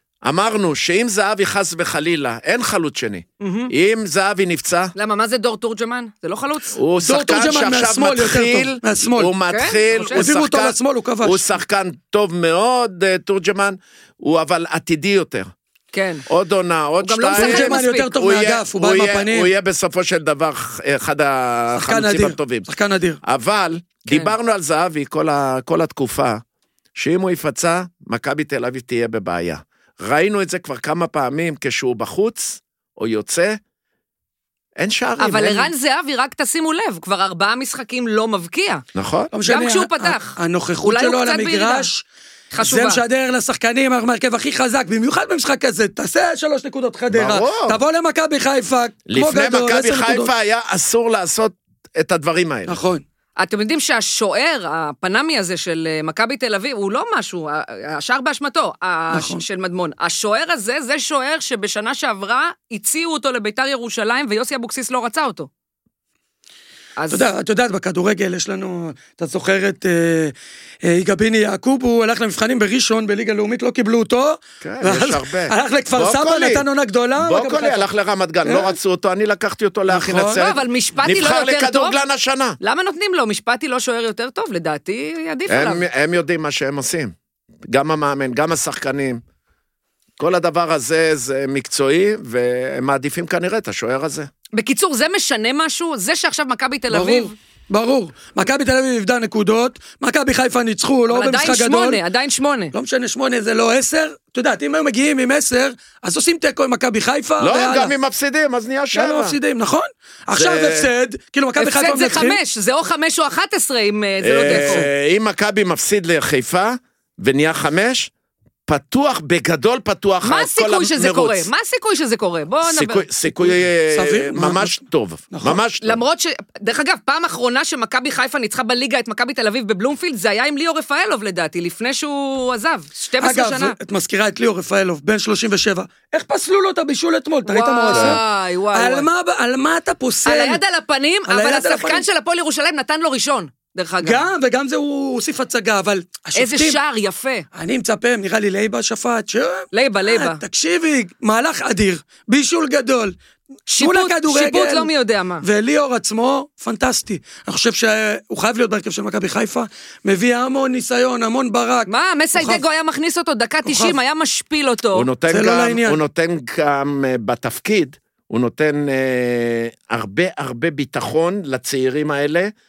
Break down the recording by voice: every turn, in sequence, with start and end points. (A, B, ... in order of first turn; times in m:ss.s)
0:00.2-0:04.9 A
0:03.4-0:03.7 B
0:04.9-0:06.8 B
0:06.7-0:15.5 A
0:07.0-0:09.3 C
0:09.5-0:10.3 B
0:10.1-0:11.4 C
0:15.9-0:16.2 B
0:16.2-0:22.7 A
0:17.0-0:18.1 B
0:17.3-0:19.5 C
0:21.8-0:23.2 C
0:23.2-0:26.4 A
0:26.9-0:33.6 A
0:34.8-0:35.7 A
0:35.2-0:38.8 B
0:38.9-0:39.3 A
0:39.3-0:42.0 C
0:39.4-0:41.9 B
0:42.5-0:43.0 B
0:42.6-0:50.3 C
0:47.1-0:47.8 A
0:49.1-0:52.8 A
0:52.7-0:53.0 C
0:53.4-1:05.5 B
0:59.1-0:59.4 C
1:07.0-1:07.3 B
1:07.1-1:17.8 C
1:14.6-1:16.6 A
1:17.2-1:22.6 A
1:18.4-1:18.8 C
1:19.9-1:20.4 C
1:20.4-1:22.0 B
1:22.6-1:25.8 B
1:25.5-1:27.1 A
1:27.6-1:29.2 A
1:30.2-1:34.3 A
1:34.5-1:37.3 B
1:36.9-1:42.0 C
1:41.1-1:42.7 B
1:42.7-1:47.9 C
1:47.4-1:49.4 A
1:48.9-1:52.4 C
1:50.3-1:50.9 A
1:51.6-1:54.9 B
1:54.2-1:58.1 A
1:54.4-1:54.9 C
1:58.7-2:01.5 A
2:00.2-2:03.1 B
2:02.6-2:06.0 A
2:03.9-2:04.8 C
2:05.3-2:05.6 C
2:05.8-2:13.8 B
2:13.2-2:20.6 C
2:17.4-2:19.1 B
2:17.9-2:18.2 A
2:20.2-2:24.2 B
2:21.3-2:22.0 C
2:24.0-2:26.8 C
2:26.3-2:27.5 B
2:27.5-2:33.2 C
2:29.7-2:30.4 B
2:33.7-2:35.4 B
2:33.8-2:34.9 C
2:35.4-2:42.6 C
2:41.9-2:45.1 B
2:43.6-2:44.0 C
2:44.9-2:52.5 A
2:45.3-2:46.0 C